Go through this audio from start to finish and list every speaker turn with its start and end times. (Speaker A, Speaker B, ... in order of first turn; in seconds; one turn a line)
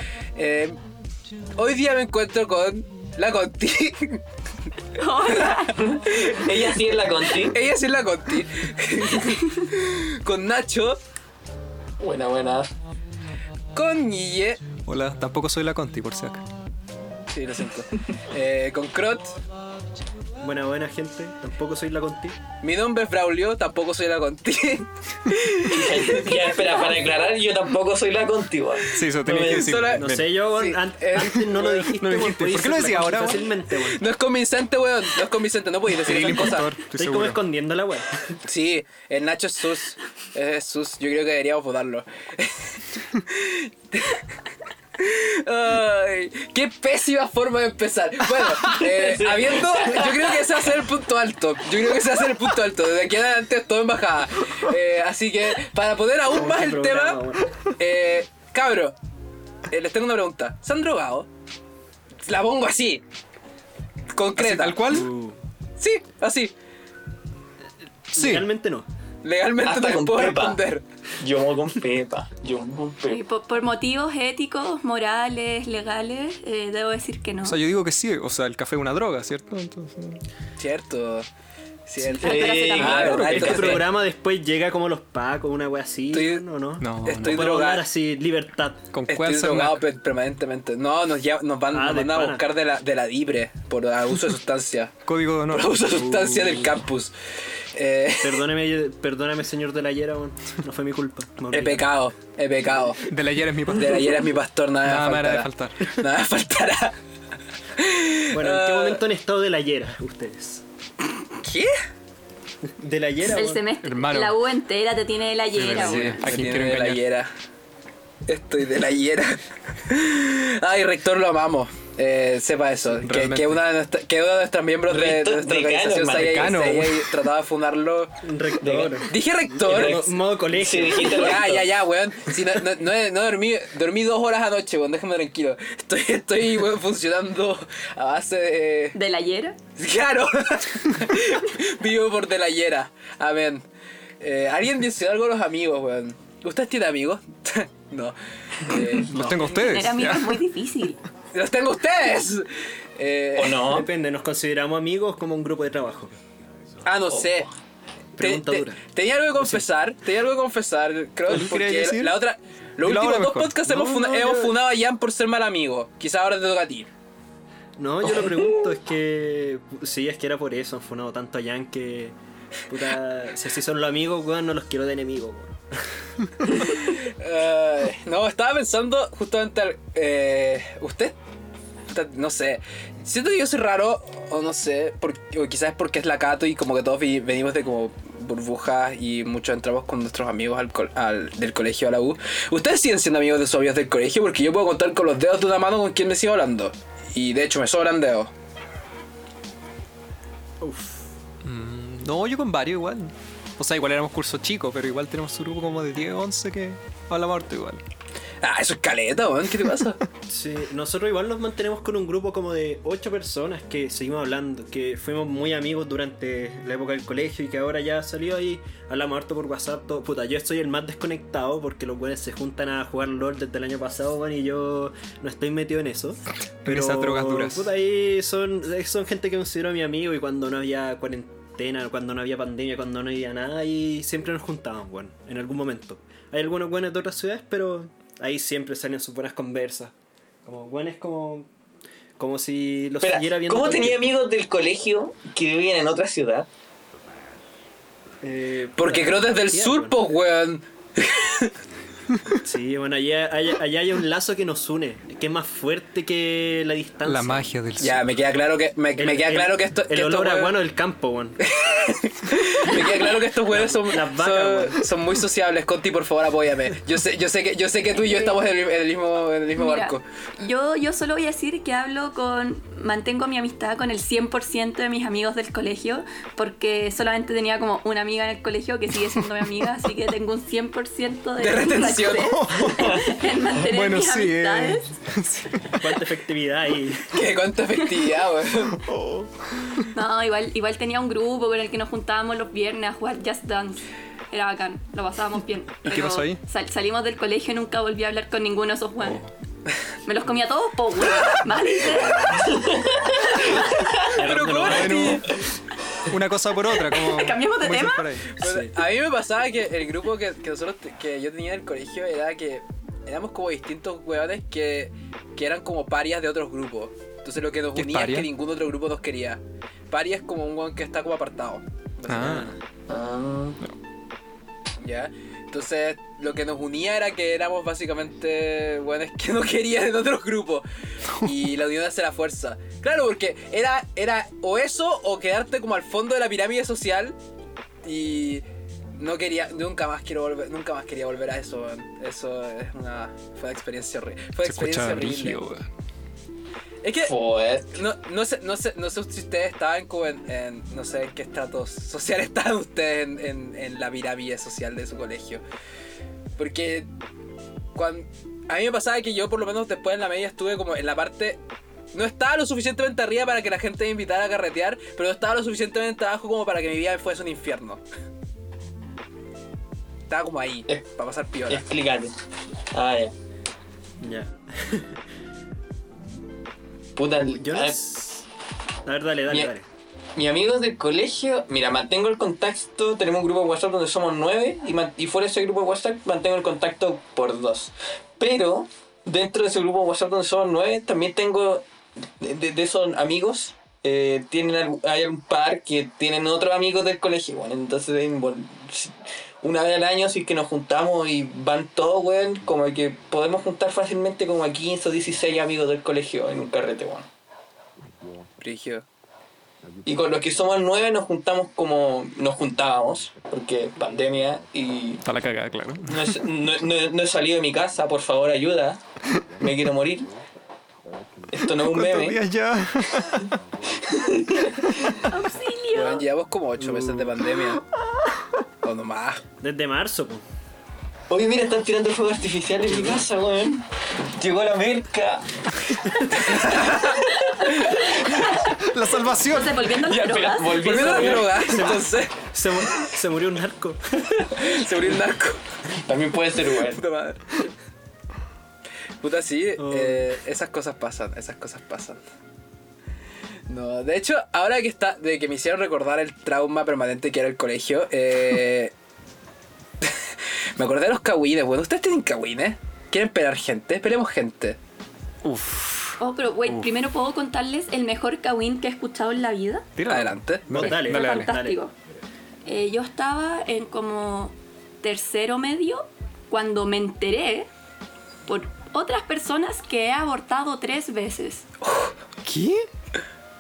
Speaker A: 0.3-0.8
Speaker A: 1.6-4.2
Speaker B: 5.0-6.0
Speaker A: 5.3-6.5
Speaker C: 5.8-7.6
Speaker A: 7.4-11.0
Speaker C: 12.0-12.7
Speaker A: 13.8-14.7
Speaker D: 14.8-16.4
Speaker A: 17.3-19.4
Speaker E: 20.4-22.4
Speaker A: 22.6-27.0
Speaker C: 25.7-29.8
Speaker D: 28.9-30.4
Speaker A: 29.3-31.9
Speaker E: 29.9-34.0
Speaker D: 32.0-33.5
Speaker A: 33.8-36.8
Speaker D: 36.1-37.4
Speaker E: 36.9-38.4
Speaker A: 38.5-44.2
Speaker A: 45.0-59.0
Speaker C: 48.7-50.5
Speaker E: 56.2-57.5
Speaker A: 59.7-61.3
Speaker A: 62.3-63.0
Speaker A: 64.1-65.1
Speaker D: 64.3-65.1
Speaker E: 64.9-65.4
Speaker A: 65.8-66.5
Speaker E: 68.1-68.9
Speaker D: 68.2-68.5
Speaker A: 69.2-70.8
Speaker C: 69.6-70.6
Speaker C: 71.2-73.2
Speaker B: 73.1-77.6
Speaker D: 77.4-80.2
Speaker A: 80.6-81.3
Speaker A: 81.9-83.9
Speaker E: 82.0-88.9
Speaker B: 82.2-83.4
Speaker C: 82.2-83.9
Speaker A: 86.1-86.4
Speaker D: 86.8-87.5
Speaker A: 87.0-87.8
Speaker D: 88.9-89.8
Speaker A: 89.1-97.1
Speaker E: 91.7-92.5
Speaker D: 95.0-96.3
Speaker E: 95.9-96.8
Speaker A: 97.8-98.4
Speaker E: 98.2-102.0
Speaker A: 101.5-103.1
Speaker D: 103.0-104.2
Speaker A: 103.7-107.0
Speaker D: 104.8-105.9
Speaker A: 107.8-109.0
Speaker E: 108.3-110.6
Speaker A: 111.4-111.8
Speaker E: 112.7-113.6
Speaker B: 113.3-116.3
Speaker D: 113.8-114.4
Speaker D: 115.5-117.0
Speaker A: 115.8-117.3
Speaker A: 118.3-128.1
Speaker D: 123.0-123.6
Speaker C: 124.9-126.5
Speaker D: 126.1-127.1
Speaker E: 128.2-131.6
Speaker C: 128.6-129.1
Speaker A: 129.1-130.0
Speaker C: 129.6-131.7
Speaker A: 131.0-139.0
Speaker B: 138.9-139.6
Speaker A: 139.8-143.6
Speaker A: 144.2-149.1
Speaker D: 149.1-150.4
Speaker E: 149.1-149.4
Speaker B: 149.4-151.0
Speaker A: 151.3-153.7
Speaker C: 153.4-153.9
Speaker E: 153.6-156.2
Speaker A: 156.8-157.5
Speaker E: 158.2-158.8
Speaker A: 158.2-166.9
Speaker E: 159.4-159.7
Speaker D: 161.3-162.2
Speaker D: 162.8-163.7
Speaker E: 163.7-164.6
Speaker E: 167.8-172.2
Speaker E: 172.7-175.8
Speaker A: 176.5-181.2
Speaker A: 181.9-198.3
Speaker E: 200.6-201.1
Speaker D: 201.4-207.8
Speaker A: 208.4-210.0
Speaker E: 210.3-239.9
Speaker D: 226.6-227.7
Speaker E: 240.4-241.5
Speaker E: 242.2-244.1
Speaker C: 243.0-246.5
Speaker E: 248.2-250.0
Speaker A: 248.8-251.5
Speaker E: 252.4-257.5
Speaker D: 257.1-258.0
Speaker A: 257.8-260.6
Speaker E: 259.0-261.4
Speaker A: 261.5-270.0
Speaker E: 263.5-264.9
Speaker B: 267.9-268.4
Speaker B: 269.5-284.9
Speaker A: 281.4-282.4
Speaker D: 282.1-285.8
Speaker E: 285.7-287.2
Speaker A: 287.1-288.8
Speaker D: 288.7-289.9
Speaker B: 289.9-299.2
Speaker D: 295.8-296.4
Speaker B: 300.1-302.6
Speaker A: 301.1-302.4
Speaker C: 302.5-304.1
Speaker E: 304.1-305.3
Speaker A: 304.1-305.4
Speaker D: 304.5-305.4
Speaker D: 306.1-308.4
Speaker B: 306.8-308.1
Speaker A: 308.3-322.6
Speaker E: 308.4-308.8
Speaker D: 317.7-318.3
Speaker D: 322.1-322.5
Speaker C: 322.9-323.6
Speaker A: 324.8-337.2
Speaker A: 337.8-338.4
Speaker A: 339.0-345.4
Speaker D: 344.4-345.7
Speaker A: 346.8-347.1
Speaker C: 347.0-347.8
Speaker A: 347.7-355.4
Speaker A: 356.4-356.9
Speaker A: 357.8-361.4
Speaker A: 361.9-367.8
Speaker A: 370.1-371.6
Speaker C: 371.5-372.1
Speaker C: 372.7-373.1
Speaker E: 374.0-375.0
Speaker C: 377.0-378.2
Speaker E: 377.3-378.1
Speaker E: 378.9-379.7
Speaker C: 380.2-391.7
Speaker C: 392.2-407.1
Speaker A: 408.4-408.9
Speaker C: 409.9-415.0
Speaker D: 415.0-416.2
Speaker C: 415.9-418.8
Speaker C: 419.4-420.1
Speaker C: 421.3-422.2
Speaker D: 421.6-423.4
Speaker C: 423.7-424.9
Speaker D: 424.6-425.0
Speaker B: 425.1-426.0
Speaker A: 425.7-427.7
Speaker E: 426.6-427.3
Speaker A: 428.6-429.2
Speaker E: 429.4-430.2
Speaker C: 431.1-433.6
Speaker C: 434.2-437.3
Speaker A: 436.1-437.1
Speaker B: 437.3-438.5
Speaker D: 438.4-439.7
Speaker B: 439.2-441.3
Speaker C: 439.7-441.7
Speaker A: 440.6-442.2
Speaker E: 441.4-444.0
Speaker A: 444.3-445.4
Speaker C: 445.8-446.8
Speaker A: 446.6-447.5
Speaker A: 449.0-452.0
Speaker E: 449.6-450.1
Speaker A: 453.5-458.7
Speaker A: 459.8-464.6
Speaker D: 465.2-466.7
Speaker B: 466.0-469.7
Speaker D: 469.8-471.4
Speaker A: 469.9-470.7
Speaker E: 470.5-471.6
Speaker B: 470.6-471.7
Speaker B: 472.4-477.5
Speaker B: 478.3-481.5
Speaker A: 481.6-481.9
Speaker D: 482.2-482.7